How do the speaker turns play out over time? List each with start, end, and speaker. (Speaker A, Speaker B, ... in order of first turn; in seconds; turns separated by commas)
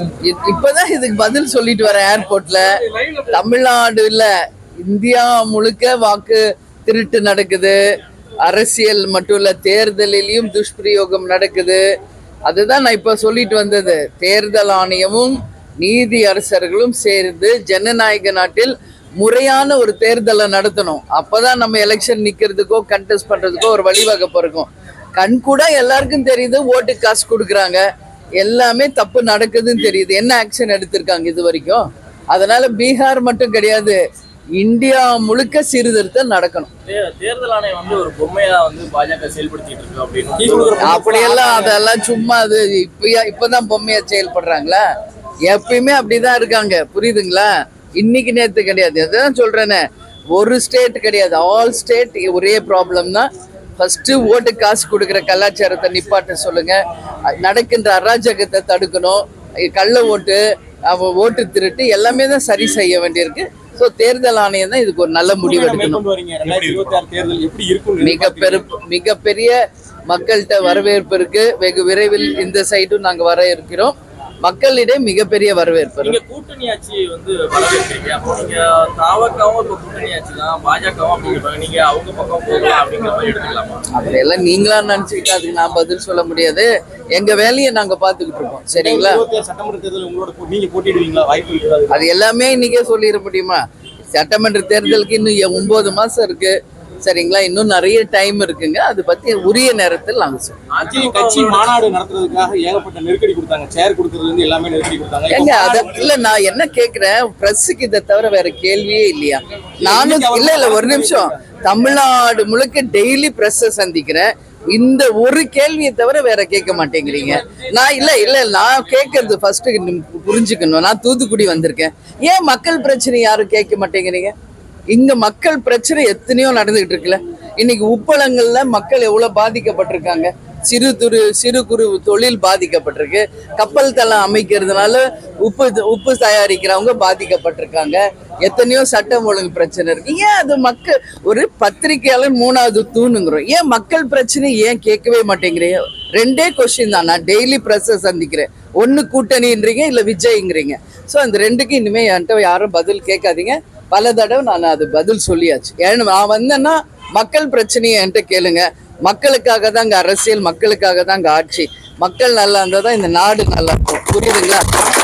Speaker A: 0.2-2.7, Speaker B: 2.8-3.3, Speaker A: 3.3-4.3, Speaker A: 4.8-7.8, Speaker A: 8.4-11.8, Speaker A: 12.5-27.8, Speaker A: 28.4-34.0, Speaker A: 34.6-36.7, Speaker B: 36.9-40.9, Speaker C: 40.4-41.8, Speaker A: 40.8-44.8, Speaker A: 45.5-49.8, Speaker A: 50.3-56.8, Speaker A: 57.4-66.0, Speaker C: 65.3-68.6, Speaker B: 66.4-67.0, Speaker A: 68.0-69.6, Speaker A: 70.1-76.2, Speaker B: 76.0-83.8, Speaker A: 83.9-89.2, Speaker C: 88.8-92.0, Speaker A: 91.9-93.6, Speaker A: 94.1-100.6, Speaker B: 100.7-101.7, Speaker C: 100.8-106.1, Speaker A: 105.3-124.3, Speaker C: 109.8-111.4, Speaker B: 117.2-119.1, Speaker A: 124.9-164.6